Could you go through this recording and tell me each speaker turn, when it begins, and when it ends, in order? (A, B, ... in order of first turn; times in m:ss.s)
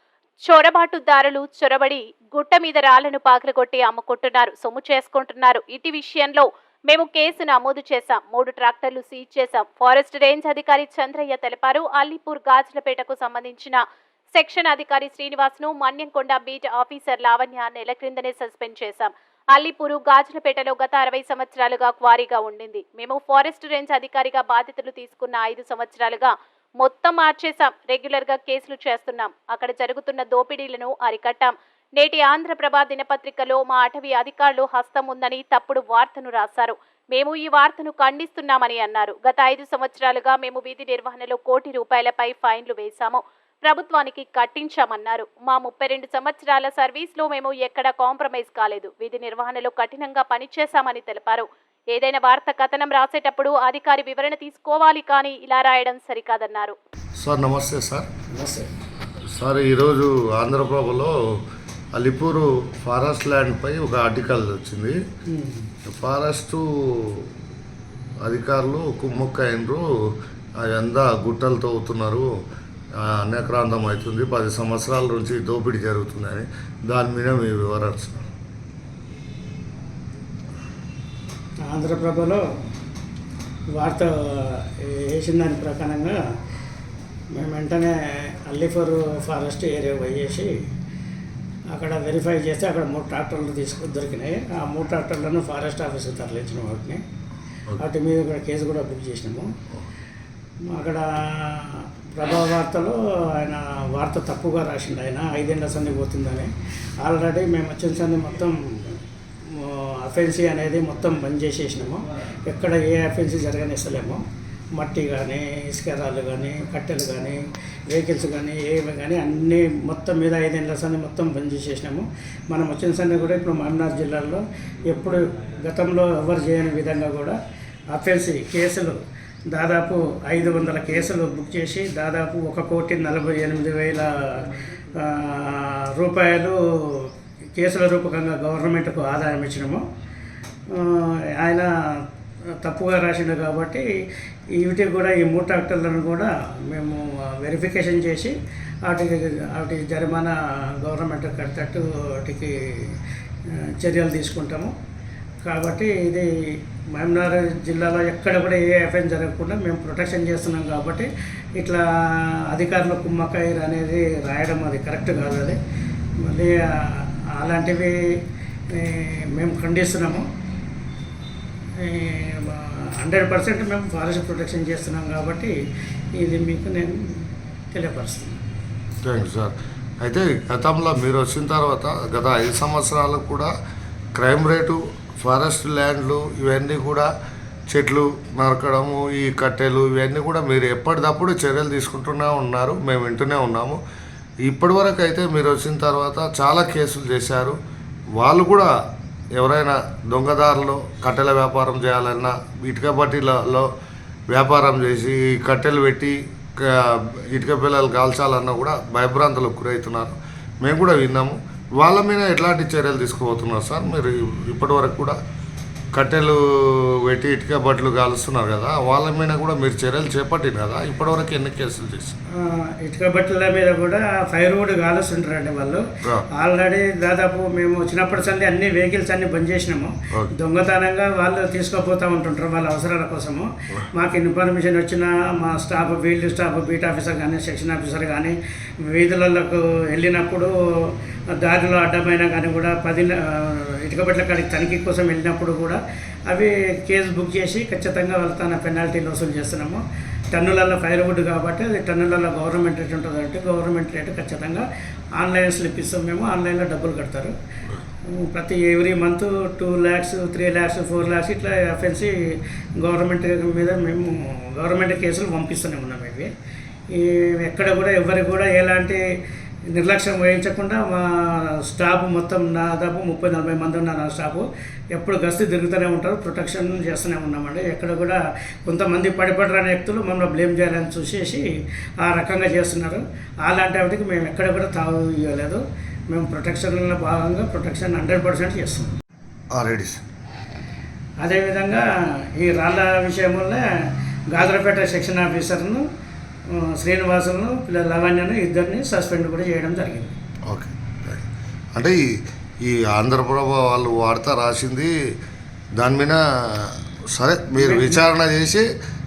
0:00.5-0:13.8 A
0:14.4-0:56.8 A
0:57.2-0:58.1 B
0:58.3-0:58.7 C
0:59.3-1:01.2 B
1:02.0-1:05.0 B
1:05.3-1:05.7 C
1:05.9-1:07.3 B
1:08.2-1:09.9 B
1:10.6-1:12.3 B
1:13.0-1:18.2 B
1:21.7-1:22.4 C
1:23.8-1:26.2 C
1:27.3-1:30.5 C
1:31.7-1:37.0 C
1:37.8-1:39.5 C
1:40.7-1:49.0 C
1:49.5-1:54.2 C
1:54.8-2:07.4 C
2:07.9-2:09.0 C
2:09.5-2:19.8 C
2:20.7-2:21.7 C
2:22.6-2:23.8 C
2:24.5-2:28.3 C
2:28.8-2:33.0 C
2:33.5-2:34.7 C
2:35.4-2:45.6 C
2:46.2-2:48.2 C
2:48.7-2:50.3 C
2:51.8-2:55.5 C
2:56.2-2:58.4 C
2:59.0-3:03.5 B
3:04.2-3:07.1 B
3:07.7-3:13.8 B
3:14.4-3:17.6 B
3:18.2-3:18.7 B
3:19.4-3:23.7 B
3:24.3-3:35.2 B
3:35.9-3:42.2 B
3:42.4-4:09.8 C
4:10.3-4:14.6 C
4:15.2-4:17.3 C
4:18.1-4:26.3 C
4:26.9-4:29.0 C
4:29.7-4:41.5 C
4:42.0-4:48.9 C
4:49.5-4:50.0 B
4:51.2-4:53.6 C
4:54.3-4:55.8 C
4:56.5-5:00.1 C
5:00.5-5:04.9 B
5:05.8-5:08.7 B
5:07.6-5:08.0 C